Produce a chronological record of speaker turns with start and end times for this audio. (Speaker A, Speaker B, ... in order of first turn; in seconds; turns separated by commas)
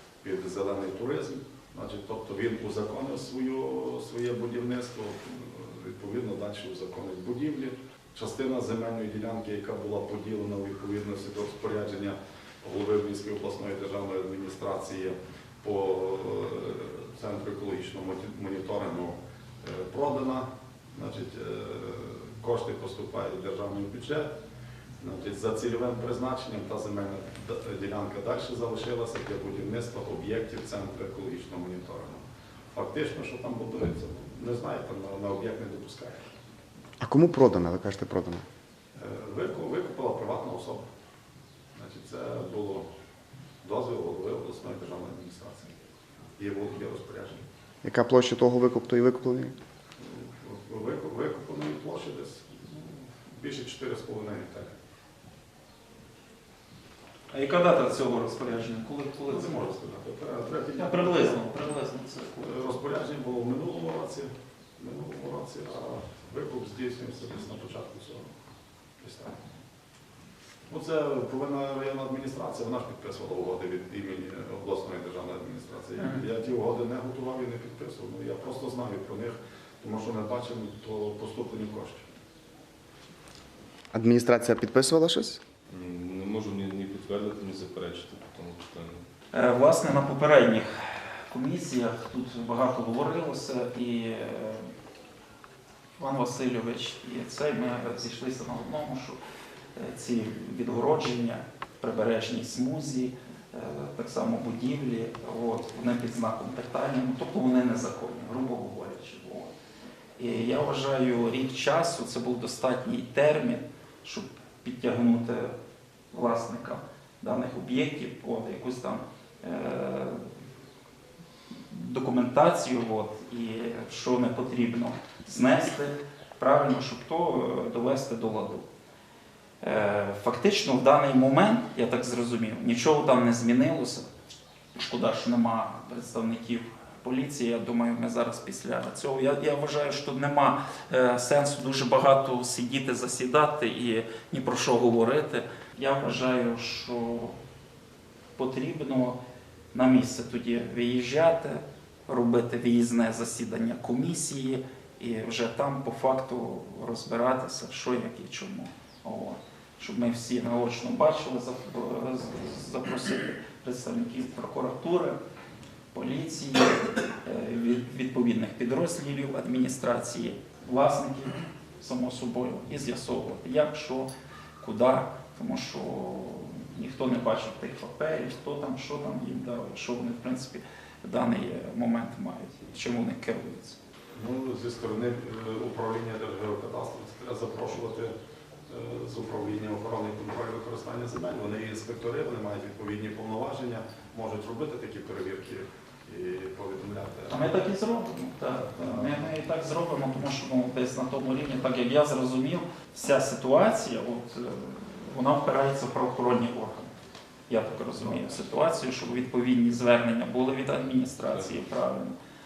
Speaker A: 0.2-24.3, Speaker A: 25.0-36.4, Speaker B: 37.0-38.5, Speaker A: 39.0-40.9, Speaker A: 41.8-42.9, Speaker A: 43.6-45.8, Speaker A: 46.4-47.4, Speaker B: 47.8-49.5, Speaker A: 50.0-54.8, Speaker C: 57.3-59.8, Speaker A: 59.3-61.5, Speaker C: 60.8-62.5, Speaker A: 62.4-68.4, Speaker A: 69.0-69.4, Speaker A: 70.7-82.0, Speaker C: 76.0-76.2, Speaker B: 83.9-85.4, Speaker D: 85.7-89.0, Speaker C: 89.3-94.7, Speaker C: 96.0-99.2, Speaker C: 99.8-109.5, Speaker C: 110.2-115.5, Speaker C: 116.1-120.2, Speaker C: 121.7-128.7, Speaker C: 129.6-134.1, Speaker C: 134.8-147.4, Speaker C: 148.4-149.2, Speaker C: 149.7-165.2, Speaker C: 165.9-174.1, Speaker C: 174.6-183.8, Speaker A: 184.1-188.1, Speaker A: 188.7-197.6, Speaker C: 197.3-206.9, Speaker A: 198.7-199.3, Speaker C: 207.5-212.2